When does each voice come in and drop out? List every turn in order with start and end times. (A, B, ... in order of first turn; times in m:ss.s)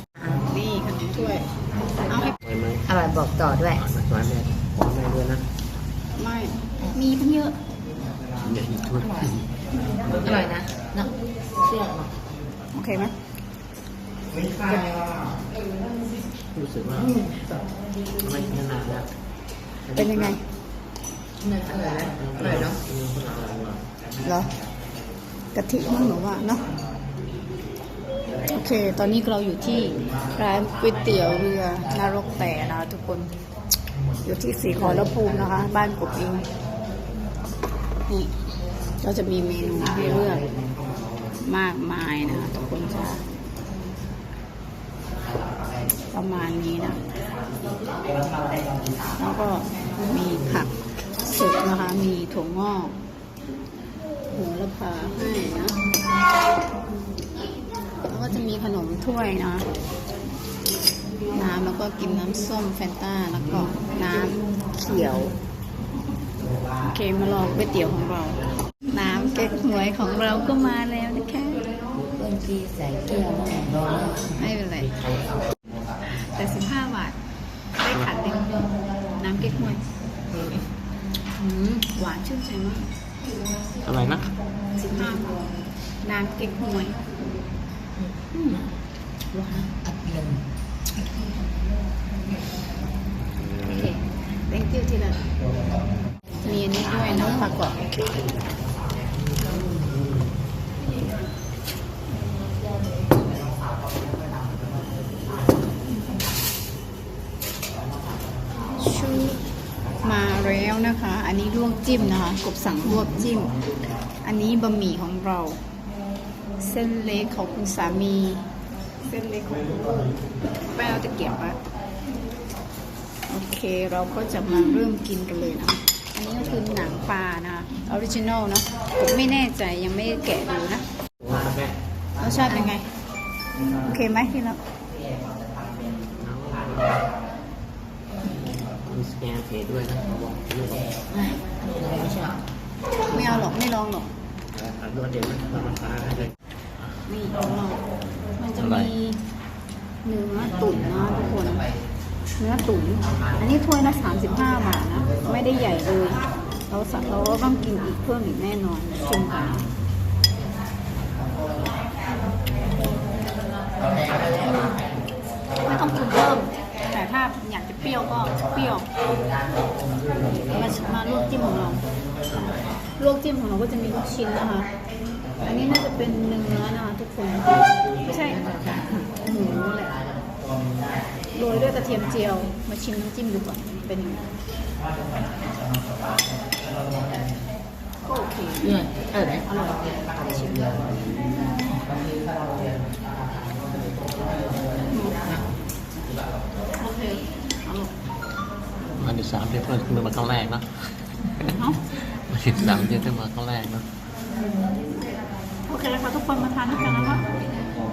0:00.3-0:01.5 A
0:02.0-0:02.3 A
0:02.4-0:02.8 B
0:02.9-0:03.8 C
0:03.7-0:05.4 B
0:06.2-0:07.6 A
0:08.4-0:09.5 B
0:09.0-0:09.3 C
0:10.1-0:10.5 B
0:10.2-0:11.1 C
0:11.6-0:12.1 C
0:12.7-0:13.1 A
0:14.6-0:15.0 C
0:16.5-0:17.1 B
0:16.9-0:17.6 C
0:18.2-0:19.1 B
0:19.9-0:20.3 B
0:19.9-0:20.4 A
0:21.4-0:22.8 C
0:21.9-0:23.8 B
0:24.2-0:24.5 A
0:25.5-0:26.7 A
0:28.5-0:33.4 A
0:34.2-0:36.5 A
0:38.1-0:38.4 A
0:39.0-0:40.5 A
0:41.4-0:43.2 A
0:46.1-0:47.0 A
0:49.2-0:52.9 A
0:54.3-0:55.8 A
0:58.0-0:59.7 A
1:01.3-1:05.4 A
1:06.8-1:11.6 A
1:12.0-1:14.4 C
1:14.4-1:14.9 A
1:16.0-1:17.2 A
1:17.8-1:19.8 A
1:17.9-1:18.2 B
1:21.4-1:22.9 A
1:23.8-1:24.4 B
1:24.8-1:25.5 A
1:26.0-1:27.0 A
1:28.1-1:28.6 C
1:29.3-1:30.3 C
1:33.4-1:34.0 B
1:34.5-1:35.2 A
1:36.4-1:38.0 A
1:36.8-1:37.5 C
1:48.8-1:49.4 A
1:50.0-1:53.6 A
1:54.2-1:55.6 A
1:56.6-1:58.4 A
1:59.0-2:00.1 A
2:00.7-2:01.6 A
2:03.3-2:10.8 A
2:11.2-2:11.8 B
2:12.2-2:12.9 A
2:13.8-2:14.6 A
2:16.2-2:17.0 B
2:18.6-2:20.9 B
2:21.1-2:22.4 C
2:23.1-2:24.1 A
2:24.5-2:26.9 B
2:27.0-2:27.8 A
2:28.4-2:29.2 A
2:28.6-2:28.9 B
2:30.0-2:31.7 A
2:32.4-2:39.7 A
2:44.4-2:44.8 A
2:45.6-2:48.9 A
2:50.5-2:51.8 A
2:53.0-2:54.7 A
2:55.4-2:58.4 A
2:58.3-2:59.0 C
2:59.2-2:59.9 A
3:01.3-3:04.3 A
3:08.0-3:08.8 A
3:08.6-3:09.5 C
3:09.4-3:11.0 A
3:14.9-3:15.2 A
3:16.8-3:17.9 A
3:19.0-3:23.8 B
3:25.7-3:27.3 A